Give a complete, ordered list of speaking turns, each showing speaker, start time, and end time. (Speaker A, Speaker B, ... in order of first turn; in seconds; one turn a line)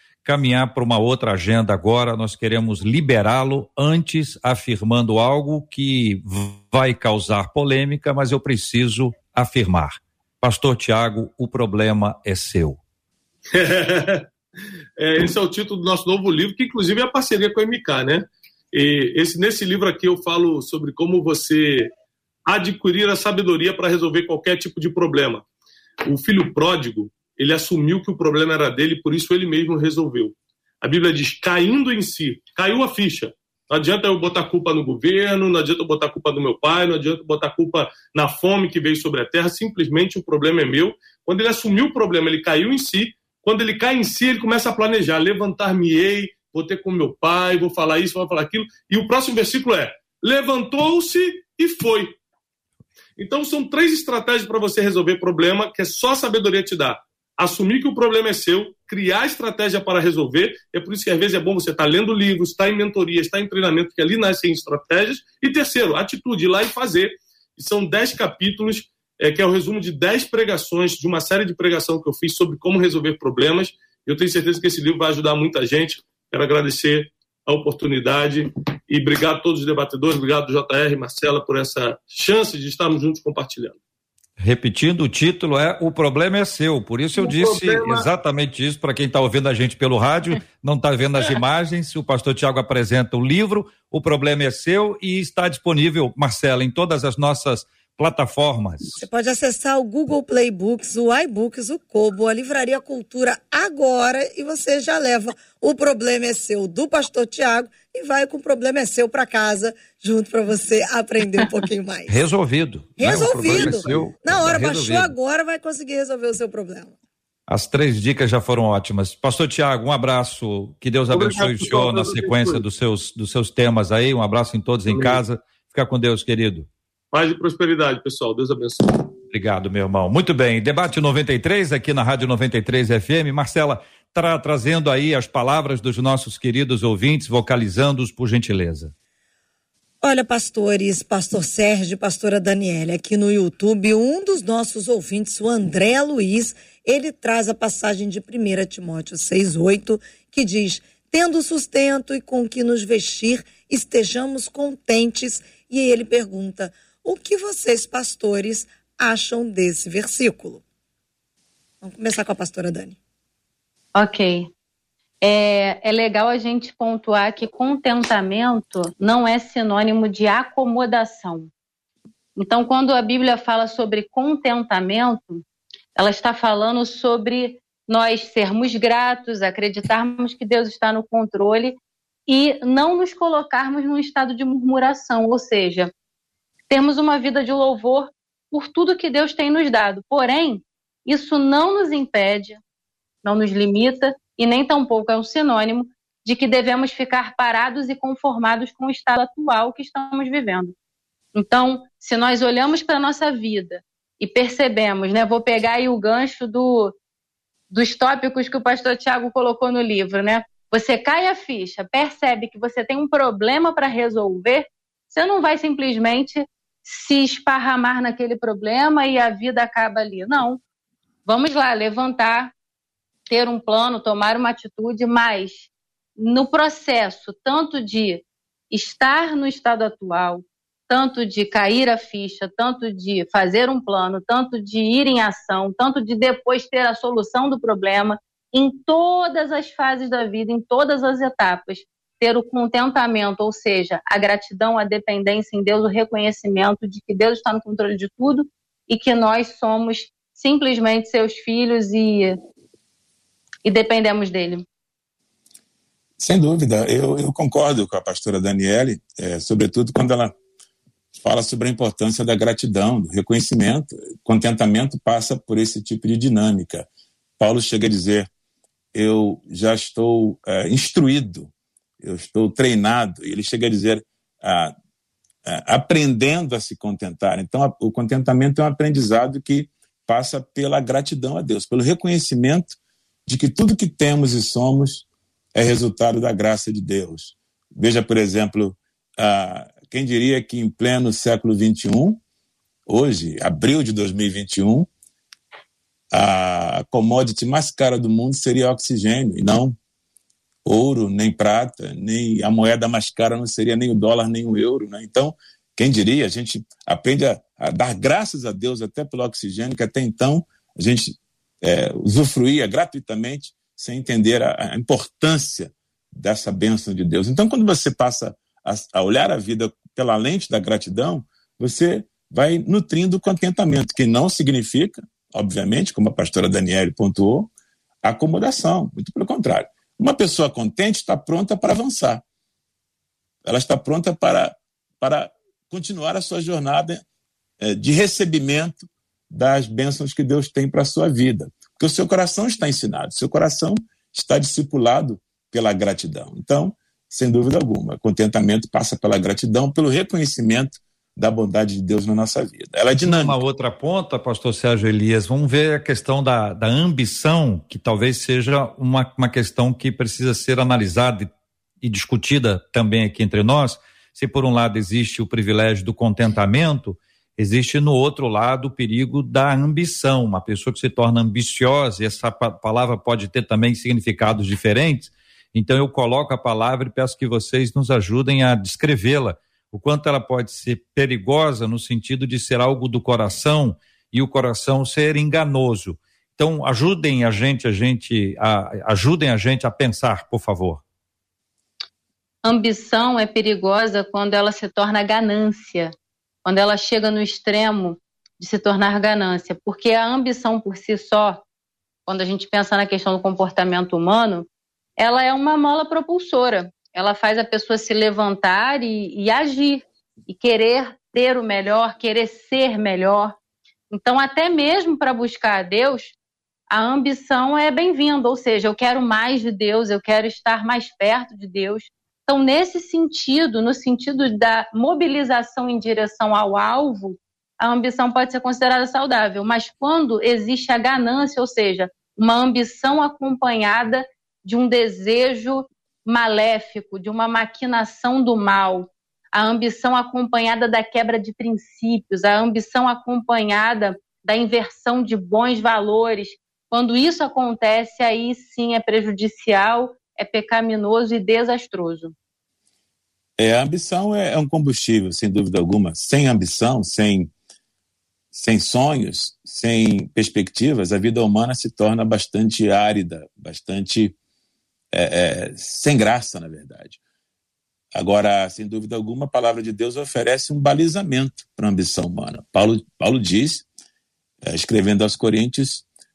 Speaker A: 0.2-12.8
Speaker B: 13.5-14.3
Speaker B: 15.0-21.9
Speaker B: 22.5-25.5
Speaker B: 26.1-52.2
Speaker B: 53.2-83.8
Speaker A: 84.4-99.0
Speaker B: 87.2-88.1
Speaker C: 99.0-112.2
Speaker A: 112.1-115.1
Speaker C: 113.0-117.0
Speaker B: 113.5-113.8
Speaker A: 117.5-126.7
Speaker B: 121.1-122.6
Speaker B: 124.9-125.2
Speaker B: 127.1-129.1
Speaker A: 129.3-138.9
Speaker C: 140.0-160.6
Speaker C: 161.8-163.0
Speaker D: 163.9-164.5
Speaker D: 165.2-171.5
Speaker D: 172.4-175.4
Speaker D: 176.0-185.9
Speaker D: 186.7-192.6
Speaker D: 193.2-200.7
Speaker D: 201.3-206.9
Speaker D: 207.7-220.6
Speaker D: 221.3-222.5
Speaker D: 223.3-252.4
Speaker D: 253.7-254.7
Speaker E: 256.2-260.4
Speaker E: 261.2-266.9
Speaker E: 267.4-268.3
Speaker E: 268.9-274.7
Speaker E: 275.5-292.2
Speaker E: 292.9-294.9
Speaker E: 296.1-299.8
Speaker E: 300.6-327.5
Speaker E: 328.0-332.2
Speaker E: 333.4-337.0
Speaker E: 337.6-353.4
Speaker A: 353.0-361.3
Speaker A: 361.8-390.8
Speaker D: 392.4-395.9
Speaker D: 396.4-401.4
Speaker D: 402.1-413.4
Speaker D: 413.9-416.2
Speaker D: 416.7-452.1
Speaker E: 453.4-457.3
Speaker E: 458.3-464.2
Speaker E: 464.9-467.0
Speaker E: 467.9-473.7
Speaker E: 474.4-475.9